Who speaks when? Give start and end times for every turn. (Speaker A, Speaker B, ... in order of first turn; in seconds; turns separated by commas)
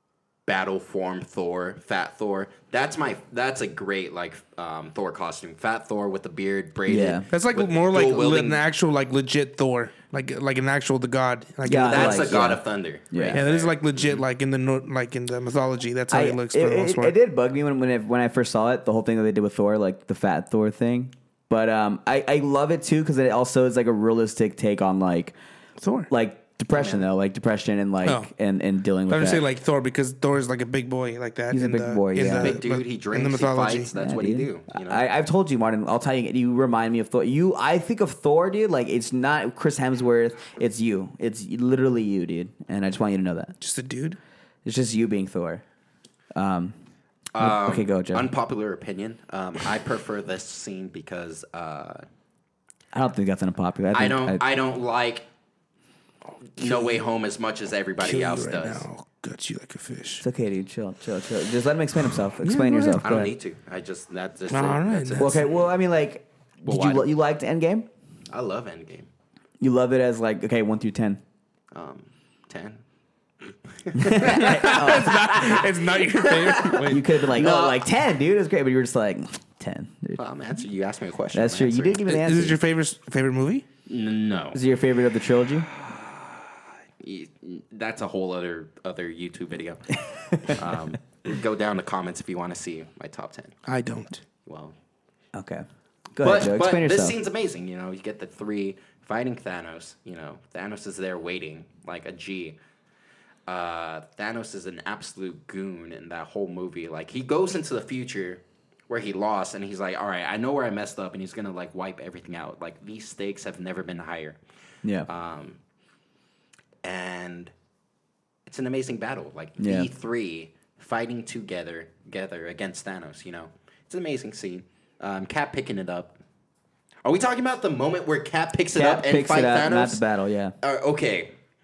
Speaker A: 0.5-8.6, Speaker B: 6.9-7.3, Speaker C: 7.3-12.4, Speaker B: 11.7-13.4, Speaker A: 11.8-14.2, Speaker C: 13.3-17.1, Speaker B: 16.1-25.3, Speaker C: 25.8-26.1, Speaker B: 26.1-29.4, Speaker A: 26.7-27.1, Speaker C: 28.0-28.3, Speaker C: 29.1-33.9, Speaker B: 31.5-32.6, Speaker A: 32.4-35.0, Speaker B: 34.0-43.5, Speaker C: 43.6-44.2, Speaker B: 44.6-45.6, Speaker B: 46.3-46.8, Speaker A: 47.3-52.0, Speaker B: 47.4-48.3, Speaker B: 52.9-54.4, Speaker A: 53.9-55.2, Speaker A: 56.6-58.9, Speaker C: 56.6-57.0, Speaker C: 58.0-60.2, Speaker B: 60.2-63.3, Speaker C: 62.4-63.1, Speaker A: 63.0-65.4, Speaker C: 64.5-65.3, Speaker B: 65.2-67.9, Speaker A: 66.7-67.1, Speaker A: 68.3-69.1, Speaker B: 69.6-71.2, Speaker A: 71.7-72.8, Speaker A: 73.8-75.5, Speaker B: 74.0-80.2, Speaker C: 74.2-77.1, Speaker A: 77.3-77.8, Speaker A: 80.2-82.0, Speaker B: 81.3-82.6, Speaker C: 82.1-83.7, Speaker A: 83.9-84.6, Speaker B: 84.5-85.7, Speaker A: 85.7-93.6, Speaker C: 93.7-94.2, Speaker A: 94.5-94.8, Speaker B: 95.3-95.7, Speaker B: 96.2-97.2, Speaker A: 96.2-102.6, Speaker A: 103.5-114.4, Speaker A: 115.0-115.6, Speaker A: 116.8-117.5, Speaker A: 118.5-126.2, Speaker B: 119.6-119.9, Speaker A: 127.0-130.0, Speaker B: 128.8-130.6, Speaker A: 130.6-131.3